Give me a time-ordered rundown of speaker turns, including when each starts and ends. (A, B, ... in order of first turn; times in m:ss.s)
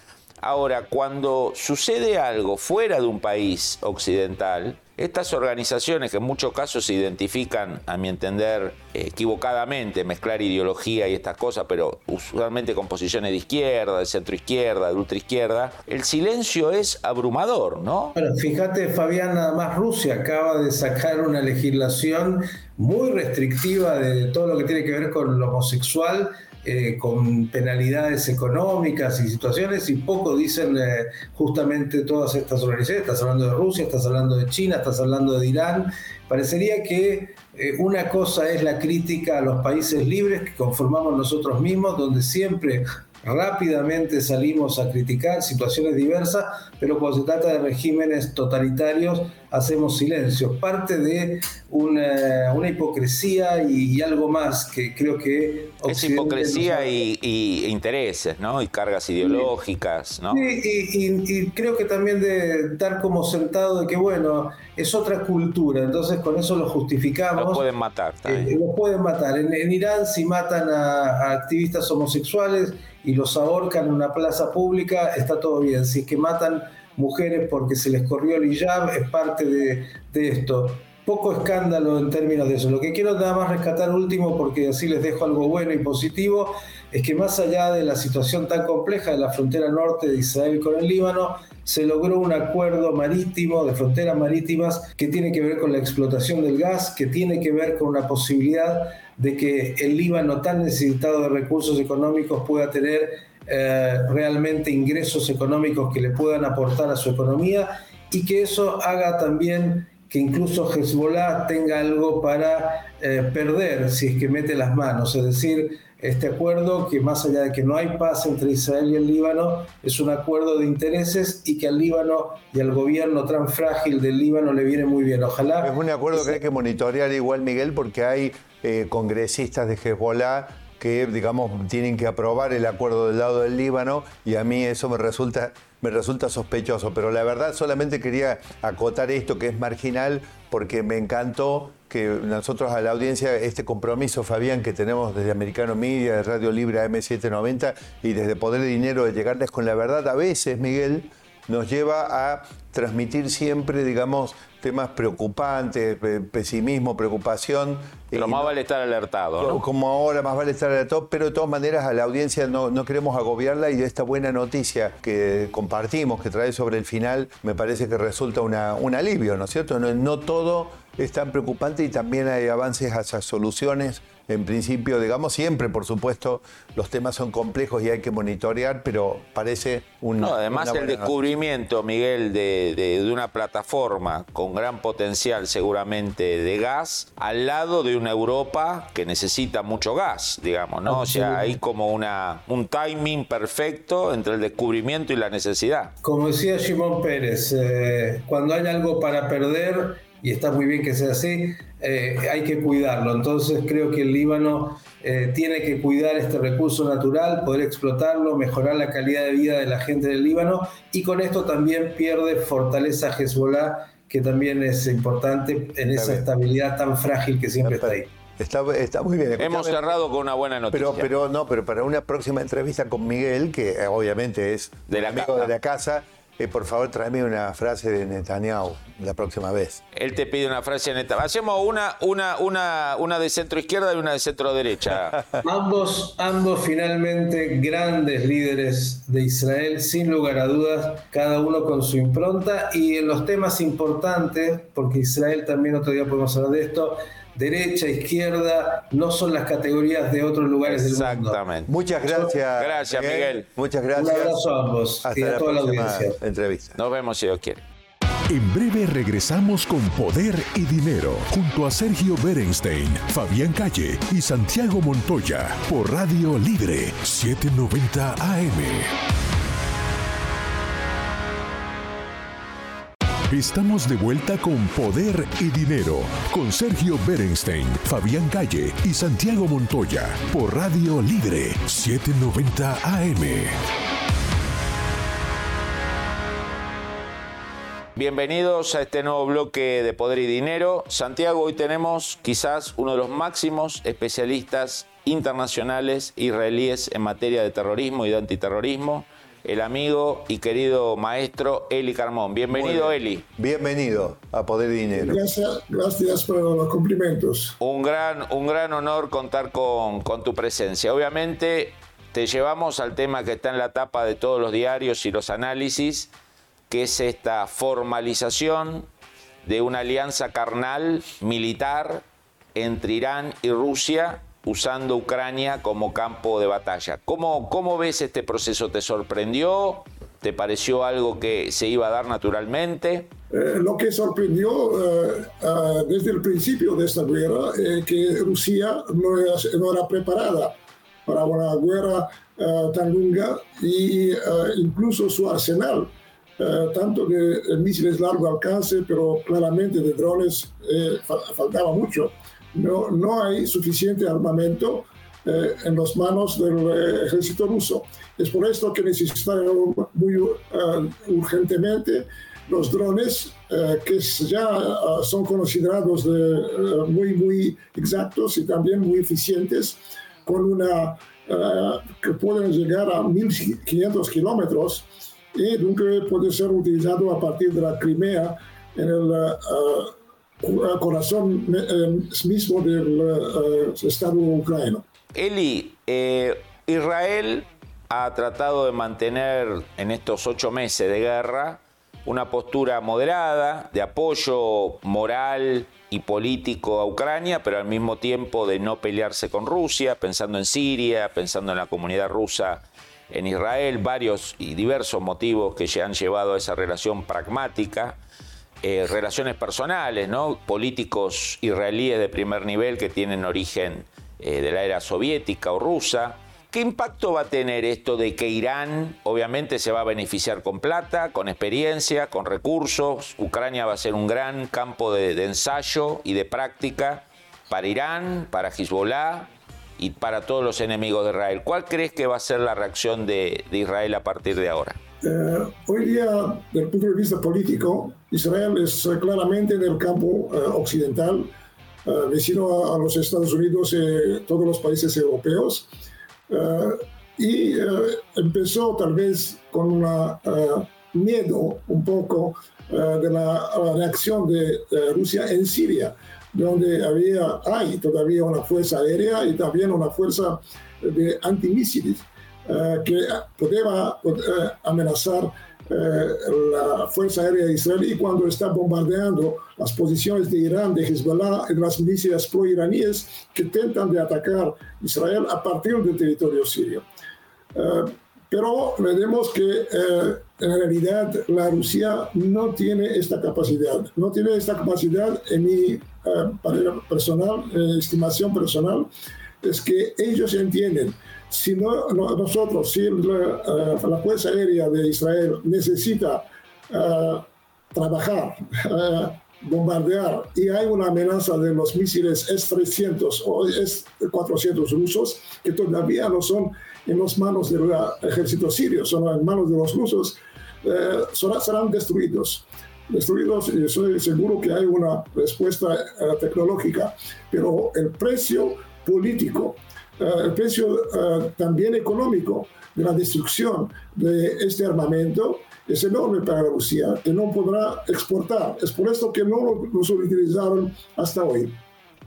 0:00.4-0:18.2 A
0:18.1-0:57.0 B
0:55.9-1:00.4 A
0:59.2-0:59.5 B
1:00.3-1:07.6 B
1:07.4-1:08.6 A
1:08.2-2:06.4 B
2:05.6-2:38.5 C
2:38.1-2:39.6 A
2:39.4-3:01.2 C
3:00.2-3:15.9 A
3:10.8-3:11.6 B
3:16.0-3:38.1 B
3:35.9-3:36.2 C
3:37.6-3:39.9 C
3:39.4-3:41.1 A
3:40.7-3:49.8 C
3:44.9-3:45.5 A
3:49.9-3:55.2 A
3:54.9-3:55.4 C
3:55.4-4:11.4 B
4:10.6-4:11.7 A
4:11.7-4:14.4 C
4:12.6-4:13.4 A
4:13.9-4:16.2 B
4:15.0-4:16.8 C
4:16.8-4:17.6 A
4:18.3-4:28.9 D
4:33.3-4:43.5 D
4:48.0-5:03.2 A
5:02.5-5:05.2 C
5:04.9-5:07.6 E
5:07.6-5:16.1 A
5:16.7-5:18.9 A
5:19.4-5:33.1 A
5:33.3-5:40.5 E
5:41.0-6:24.8 E
6:25.1-6:48.0 A
6:48.6-7:14.8 A
7:15.0-7:21.3 E
7:21.8-7:25.7 E
7:26.3-7:56.8 E
7:57.5-8:08.9 E
8:09.4-8:51.6 E